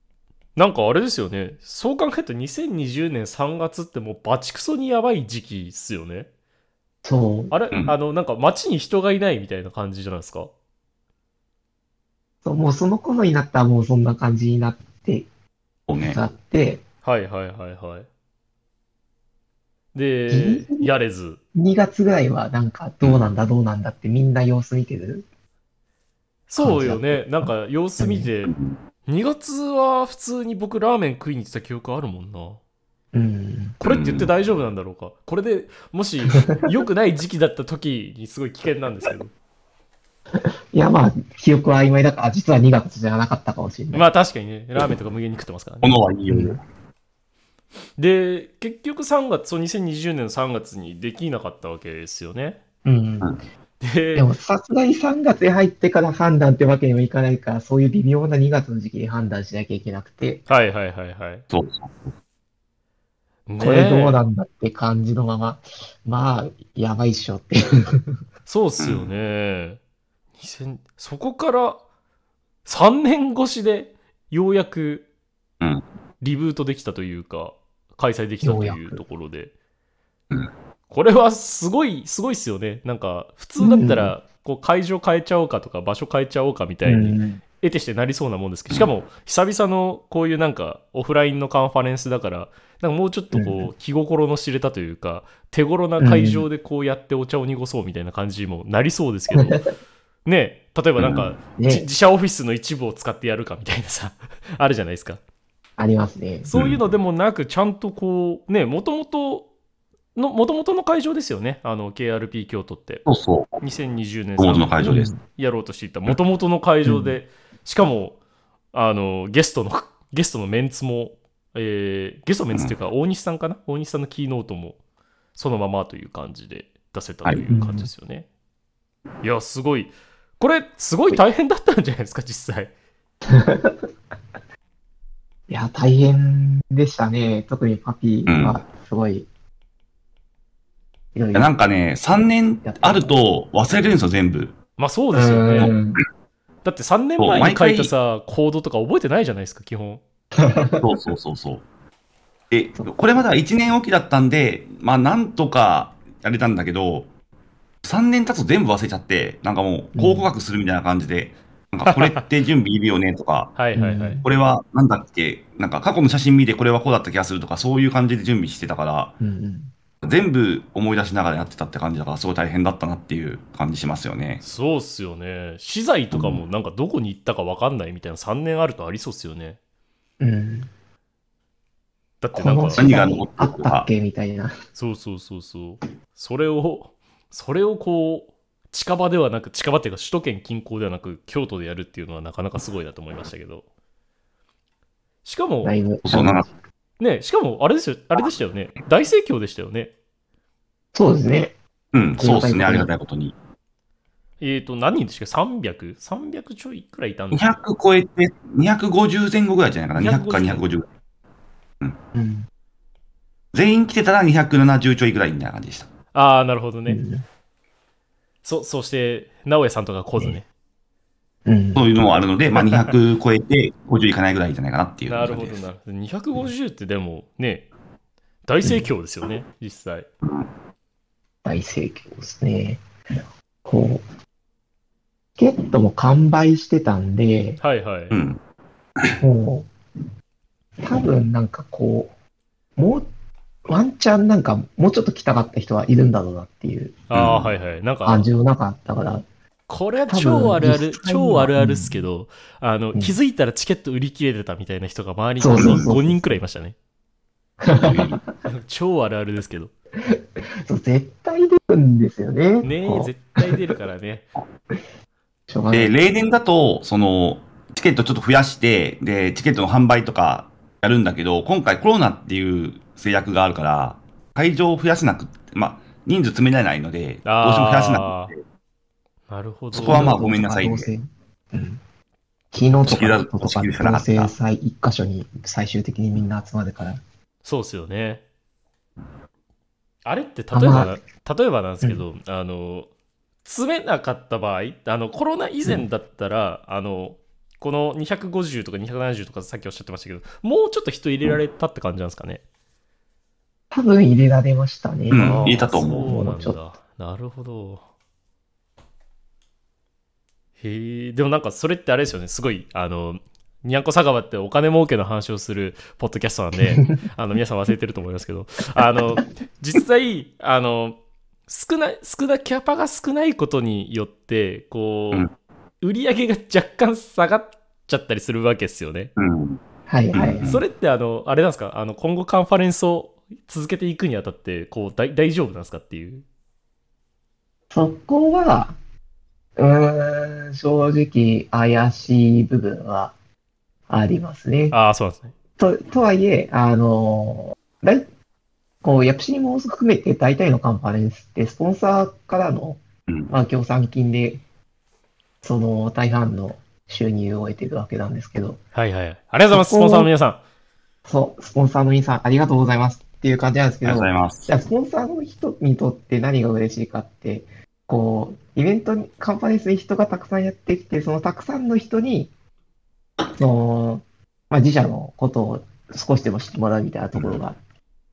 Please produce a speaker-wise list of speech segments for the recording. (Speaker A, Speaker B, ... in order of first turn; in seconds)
Speaker A: 0.6-6.3, 7.5-10.5, 17.0-18.1, 19.9-21.4, 26.5-28.5, 29.1-32.6, 33.8-39.3, 43.9-46.0, 48.0-52.6, 53.8-54.3, 60.5-61.4, 63.5-64.2, 68.5-69.8, 70.4-71.8, 72.6-75.0, 76.2-79.5, 80.9-99.6, 100.2-105.2, 106.4-109.5, 110.2-113.0, 113.6-118.2, 118.7-124.8, 125.3-128.2, 129.2-132.7, 144.8-145.7, 146.6-150.0, 161.9-162.2, 163.6-164.2, 174.4-179.6, 182.2-182.9, 184.7-193.6, 195.2-195.8, 197.0-199.9, 204.4-207.6, 209.9-210.6, 216.1-217.0, 218.4-220.4, 225.1-227.7, 228.4-230.1, 237.6-238.1, 247.1-248.2, 249.7-256.7, 258.4-259.7, 262.6-264.3, 277.2-278.3, 279.3-280.2, 287.4-288.2, 290.1-292.9, 293.4-302.4, 305.2-307.8, 310.6-325.3, 325.8-329.1, 330.4-336.2, 344.7-345.3, 358.7-360.4
Speaker B: 7.0-7.5, 12.4-15.3, 16.0-16.8, 20.3-20.9, 21.5-25.2, 26.6-27.5, 28.0-28.3, 33.1-33.8, 40.7-44.1, 46.3-46.6, 52.8-53.3, 54.1-60.4, 63.6-68.2, 78.4-79.0, 83.6-84.1, 86.8-87.4, 93.3-93.7, 96.0-96.5, 101.6-101.8, 105.8-106.5, 114.8-115.2, 116.8-117.2, 127.5-127.9, 133.3-133.8, 135.5-139.3, 141.1-141.5, 142.6-143.1, 145.1-146.0, 150.4-150.8, 159.9-160.3, 163.7-164.2, 169.2-169.7, 180.2-180.7, 182.3-184.5, 195.6-196.5, 200.9-201.6, 202.2-202.9, 212.1-212.5, 216.9-217.2, 221.4-221.8, 228.6-228.9, 231.4-232.8, 233.6-234.0, 235.4-237.6, 239.2-239.7, 240.8-242.1, 242.8-243.1, 243.7-247.0, 248.0-249.2, 250.1-252.1, 255.4-256.3, 257.6-258.3, 260.1-263.6, 265.5-265.9, 279.8-281.8, 282.5-287.0, 290.5-291.0, 303.7-306.6, 329.9-330.4, 337.7-338.8, 339.6-343.1, 343.9-344.8, 345.6-348.1, 348.8-354.4, 355.4-358.6, 359.5-360.1, 361.1-372.3, 373.4-377.6
Speaker C: 15.9-16.2, 28.5-28.8, 33.8-34.3, 45.8-46.6, 61.5-62.1, 68.8-69.1, 101.0-101.3, 106.5-106.8, 113.0-113.6, 114.4-115.1, 138.3-138.6, 141.3-144.6, 147.2-147.9, 150.8-151.6, 152.5-157.1, 157.8-163.6, 164.2-169.2, 170.0-174.4, 176.1-176.4, 182.7-183.9, 196.1-196.4, 201.9-203.3, 207.3-210.9, 213.5-215.9, 221.8-225.6, 230.2-230.5, 238.1-238.4, 247.1-247.5, 255.6-255.9, 257.7-258.2, 265.7-278.4, 279.7-280.9, 282.9-284.3, 305.1-306.1, 329.2-329.6, 330.1-330.6, 363.8-364.5, 377.1-377.4